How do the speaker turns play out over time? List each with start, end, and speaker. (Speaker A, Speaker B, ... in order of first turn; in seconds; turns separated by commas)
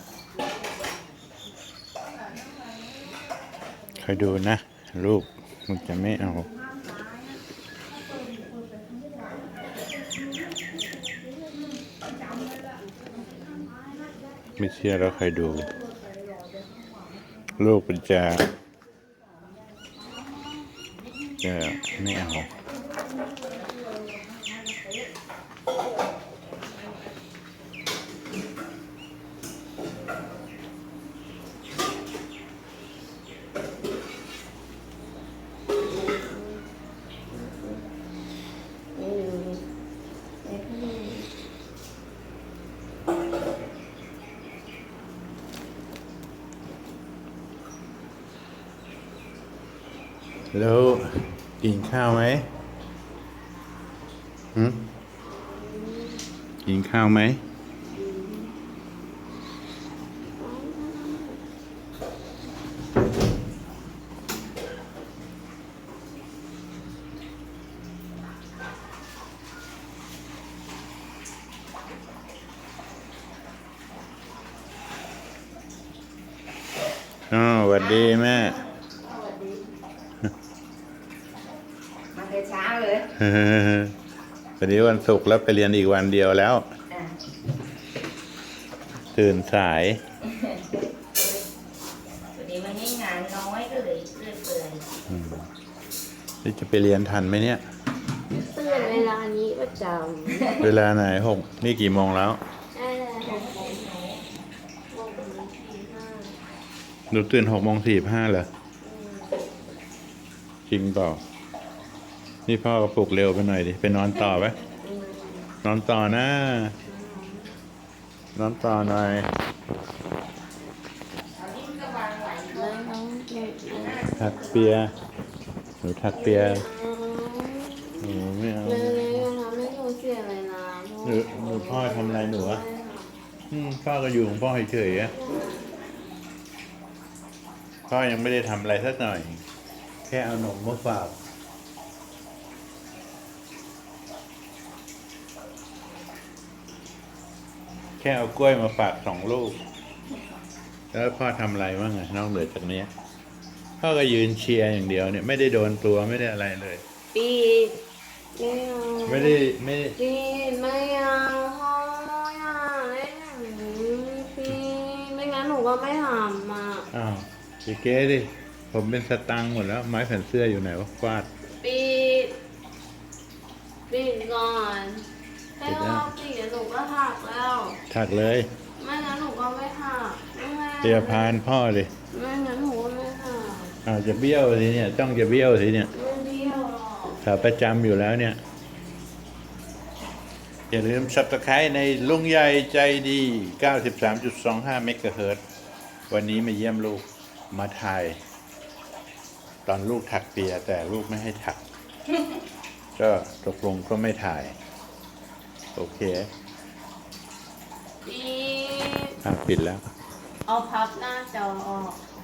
Speaker A: 4.0-6.5, Speaker A: 14.6-15.7, Speaker A: 17.6-18.5, Speaker A: 21.4-22.5, Speaker B: 35.9-36.6, Speaker B: 37.3-37.9, Speaker B: 39.0-39.7, Speaker B: 40.4-41.3, Speaker A: 50.5-52.5, Speaker A: 54.5-54.8, Speaker B: 55.3-56.2, Speaker A: 56.6-57.4, Speaker B: 57.9-58.5, Speaker B: 60.4-61.4, Speaker A: 77.3-78.6, Speaker C: 77.8-79.7, Speaker C: 82.1-83.1, Speaker A: 83.2-84.0, Speaker A: 84.6-86.7, Speaker C: 86.9-87.2, Speaker A: 89.1-90.0, Speaker C: 91.2-91.4, Speaker C: 92.3-94.8, Speaker A: 95.1-95.5, Speaker A: 96.4-97.6, Speaker B: 98.3-100.6, Speaker C: 98.7-99.1, Speaker A: 100.6-102.4, Speaker B: 102.7-103.9, Speaker C: 103.2-104.2, Speaker B: 104.9-106.4, Speaker A: 107.1-108.5, Speaker B: 108.8-109.4, Speaker A: 110.7-111.2, Speaker A: 112.5-114.6, Speaker B: 114.3-115.5, Speaker A: 115.6-116.7, Speaker B: 116.8-117.6, Speaker A: 118.3-119.3, Speaker C: 121.3-122.7, Speaker B: 122.5-124.1, Speaker C: 123.7-124.8, Speaker A: 124.2-124.9, Speaker A: 125.8-126.7, Speaker B: 126.1-133.1, Speaker A: 128.0-129.3, Speaker A: 131.0-132.6, Speaker A: 133.5-135.1, Speaker B: 135.1-135.8, Speaker A: 137.9-139.4, Speaker A: 140.1-141.2, Speaker A: 148.0-149.6, Speaker A: 150.9-152.9, Speaker A: 153.8-156.8, Speaker B: 157.1-157.8, Speaker B: 158.4-159.4, Speaker A: 159.1-160.0, Speaker B: 160.0-166.9, Speaker A: 166.9-171.3, Speaker B: 171.6-172.3, Speaker B: 173.9-175.1, Speaker B: 175.6-177.8, Speaker A: 175.7-176.1, Speaker A: 177.9-178.5, Speaker B: 178.8-181.4, Speaker A: 180.8-181.9, Speaker B: 182.1-183.8, Speaker A: 183.8-185.9, Speaker B: 185.9-187.2, Speaker A: 187.2-188.4, Speaker A: 190.7-195.4, Speaker A: 196.1-198.2, Speaker A: 199.7-201.6, Speaker A: 203.0-204.6, Speaker A: 205.8-206.3, Speaker B: 208.1-209.2, Speaker A: 209.2-209.8, Speaker B: 210.5-212.0